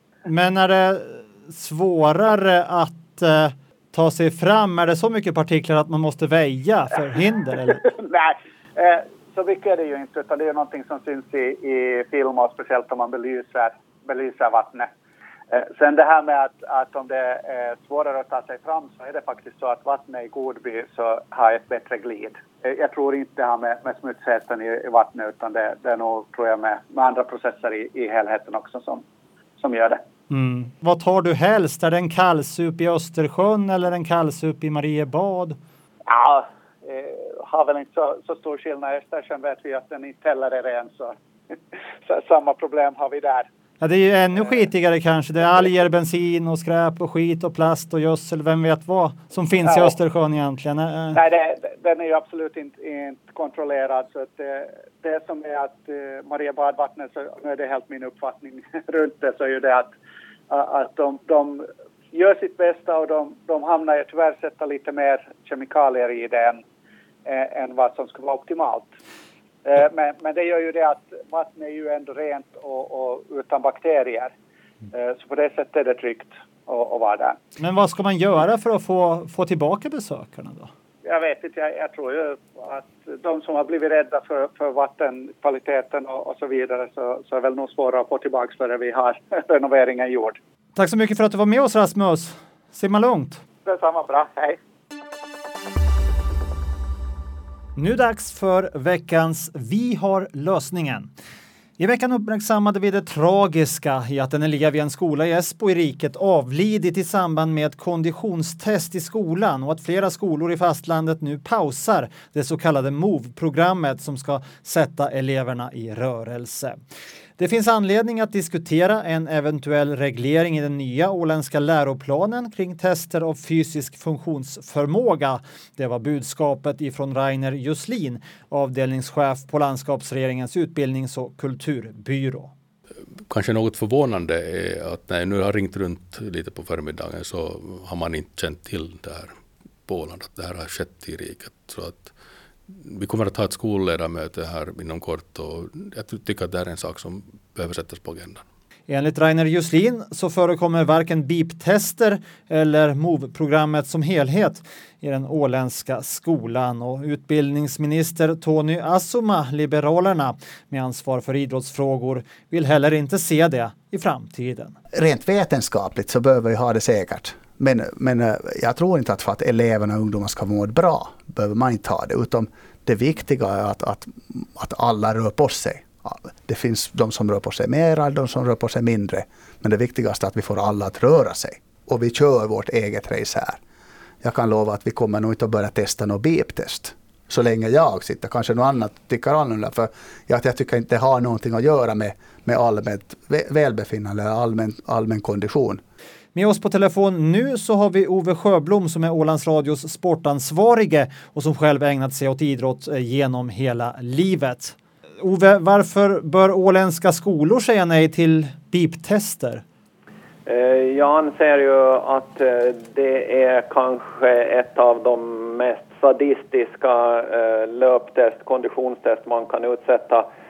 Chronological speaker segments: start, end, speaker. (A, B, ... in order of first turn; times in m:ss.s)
0:00.2-0:07.8 A
0:07.8-0:14.9 B
0:15.5-0:29.0 B
0:29.6-0:30.0 B
0:30.3-0:35.6 A
0:36.1-0:41.1 B
0:42.0-0:43.5 B
0:43.8-0:51.2 A
0:49.6-0:49.9 B
0:51.1-0:59.9 B
1:00.5-1:06.6 B
1:07.2-1:08.9 B
1:09.6-1:14.3 B
1:14.9-1:17.4 B
1:17.6-1:20.7 A
1:21.0-1:30.4 B
1:30.8-1:33.4 A
1:33.6-1:34.6 B
1:37.8-1:41.1 A
1:41.8-1:56.8 A
1:57.4-2:12.5 A
2:13.3-2:19.3 C
2:19.9-2:22.1 C
2:22.7-2:28.4 C
2:28.9-2:44.8 A
2:44.9-3:03.6 D
3:04.2-3:15.8 D
3:16.3-3:29.6 A
3:30.4-3:40.2 E